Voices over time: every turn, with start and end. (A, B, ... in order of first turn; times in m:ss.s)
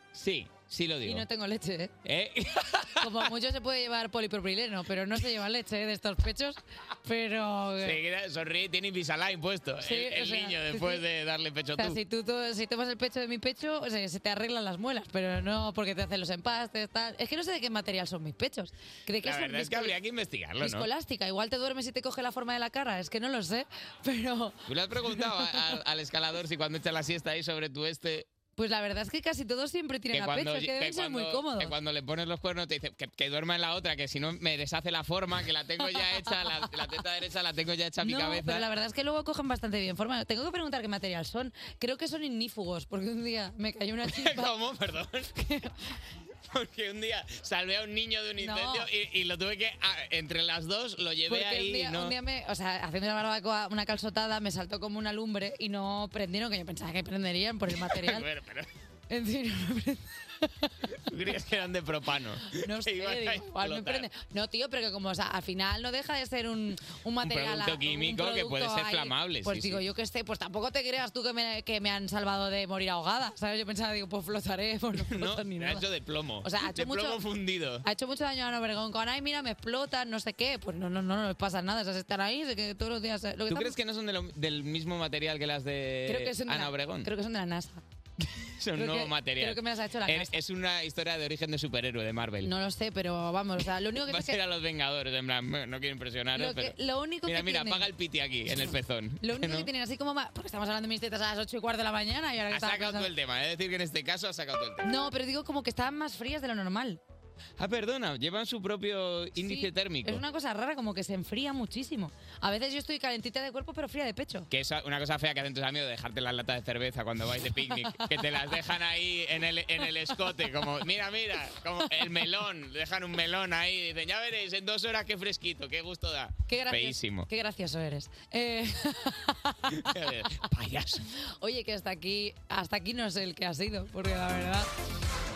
0:00.1-0:01.2 A
0:01.0-0:01.9 B
0:02.0-0:03.3 A
0:03.0-0:08.0 B
0:07.8-0:12.0 A
0:09.8-0:11.0 B
0:11.8-0:19.9 B
0:19.2-0:20.9 A
0:20.6-0:24.6 B
0:24.7-0:28.2 A
0:25.1-0:25.7 B
0:28.6-0:31.7 B
0:30.1-0:38.6 A
0:35.8-0:36.6 B
0:38.0-0:44.5 B
0:44.1-0:45.4 A
0:45.4-0:45.7 B
0:46.5-0:52.1 A
0:48.4-0:48.9 B
0:51.3-0:58.3 B
0:57.9-0:58.7 A
0:59.1-1:00.7 B
1:01.1-1:04.1 A
1:02.5-1:15.8 B
1:07.2-1:09.8 A
1:15.0-1:17.8 A
1:16.4-1:17.2 B
1:17.8-1:23.7 B
1:23.5-1:27.1 A
1:26.1-1:27.8 B
1:28.6-1:32.5 A
1:28.7-1:30.4 B
1:32.4-1:34.4 B
1:34.1-1:36.7 A
1:36.4-1:37.9 B
1:37.3-1:39.7 A
1:38.5-1:43.1 B
1:42.5-1:44.9 A
1:44.8-1:47.0 B
1:47.6-1:50.2 A
1:49.4-1:54.5 B
1:54.5-2:07.3 A
1:57.8-1:58.0 B
2:06.5-2:09.9 B
2:09.7-2:11.0 A
2:11.4-2:14.7 B